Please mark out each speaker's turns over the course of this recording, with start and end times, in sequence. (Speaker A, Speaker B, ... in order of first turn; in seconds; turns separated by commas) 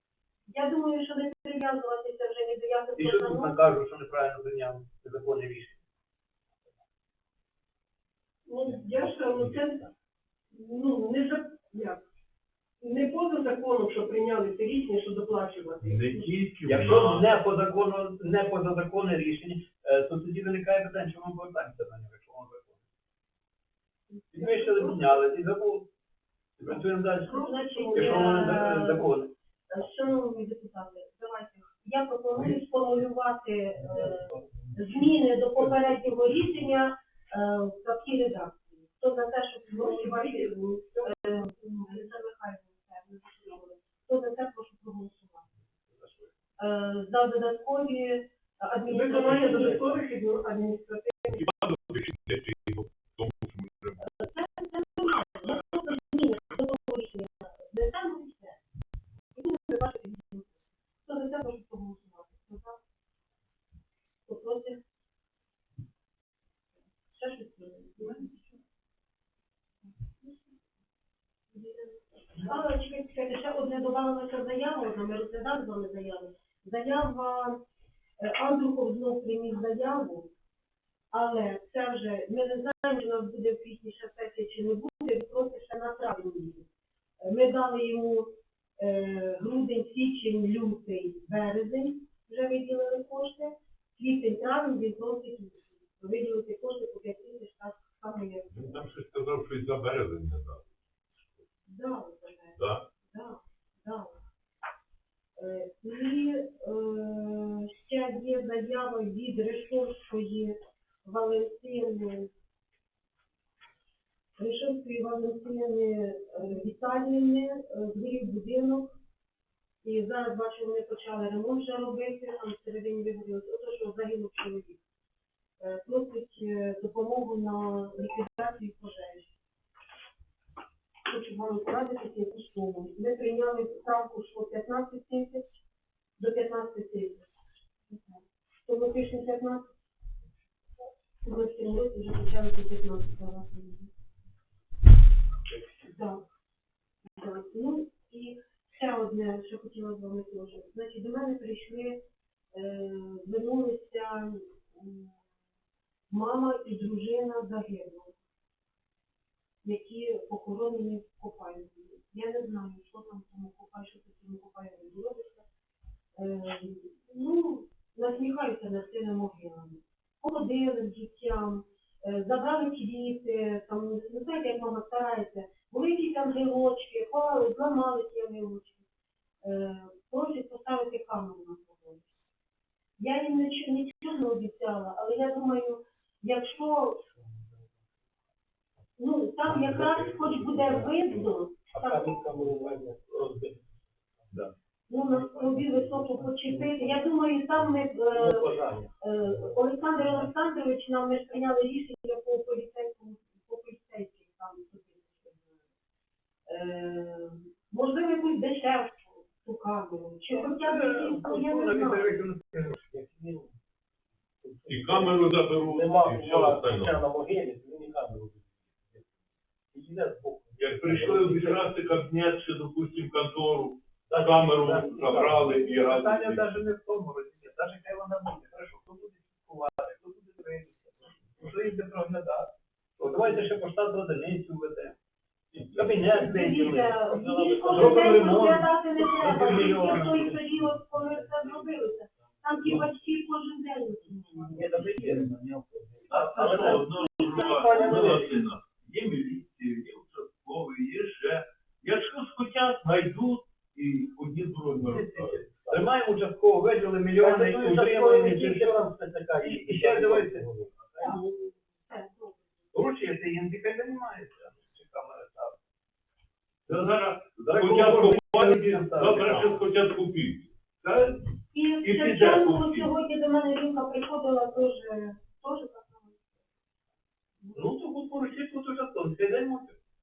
Speaker A: 0.5-3.5, Speaker B: 3.0-5.8, Speaker C: 8.4-9.9, Speaker C: 10.5-12.0, Speaker C: 12.8-16.2, Speaker D: 15.8-17.3, Speaker B: 16.6-22.8, Speaker B: 24.3-25.9, Speaker A: 24.4-25.0, Speaker B: 26.6-29.3, Speaker A: 27.3-29.1, Speaker C: 27.9-28.5, Speaker A: 29.7-45.5, Speaker C: 39.7-42.1, Speaker B: 45.9-46.3, Speaker A: 46.6-49.8, Speaker C: 48.9-51.4, Speaker B: 49.4-49.9, Speaker D: 51.3-54.0, Speaker A: 54.0-58.6, Speaker A: 59.3-60.5, Speaker A: 61.0-62.8, Speaker A: 64.3-64.8, Speaker A: 67.1-68.3, Speaker A: 71.5-77.6, Speaker A: 78.2-80.3, Speaker A: 81.1-86.7, Speaker A: 87.2-98.7, Speaker D: 98.5-100.7, Speaker A: 101.7-102.6, Speaker D: 102.6-102.8, Speaker A: 103.1-104.2, Speaker A: 105.4-112.3, Speaker A: 114.4-119.0, Speaker A: 119.8-124.8, Speaker A: 125.6-129.3, Speaker A: 131.1-135.4, Speaker A: 136.2-137.2, Speaker A: 137.9-139.7, Speaker A: 141.2-143.9, Speaker A: 145.8-146.2, Speaker A: 147.1-152.0, Speaker A: 152.5-155.2, Speaker A: 156.1-158.1, Speaker A: 159.6-165.4, Speaker A: 166.2-178.8, Speaker A: 179.4-182.1, Speaker A: 183.0-187.0, Speaker A: 189.0-192.2, Speaker E: 189.6-190.4, Speaker E: 191.7-193.6, Speaker A: 194.9-205.6, Speaker E: 195.1-197.0, Speaker E: 198.1-198.9, Speaker E: 200.0-200.2, Speaker A: 206.5-212.2, Speaker B: 210.3-212.8, Speaker E: 212.8-213.5, Speaker E: 214.4-219.1, Speaker D: 214.7-217.0, Speaker E: 219.7-221.9, Speaker D: 220.6-226.4, Speaker B: 224.1-235.0, Speaker B: 235.7-240.3, Speaker A: 236.1-245.0, Speaker E: 237.0-238.4, Speaker E: 239.4-241.8, Speaker E: 242.4-242.9, Speaker E: 244.1-248.4, Speaker B: 244.7-245.1, Speaker D: 246.1-255.4, Speaker A: 247.1-248.1, Speaker B: 254.8-258.9, Speaker E: 255.5-255.9, Speaker E: 257.1-261.2, Speaker B: 259.4-260.5, Speaker A: 261.8-262.5, Speaker B: 262.7-265.5, Speaker D: 266.7-271.2, Speaker B: 267.4-269.6, Speaker A: 271.5-276.2, Speaker D: 271.8-272.9, Speaker B: 277.5-279.8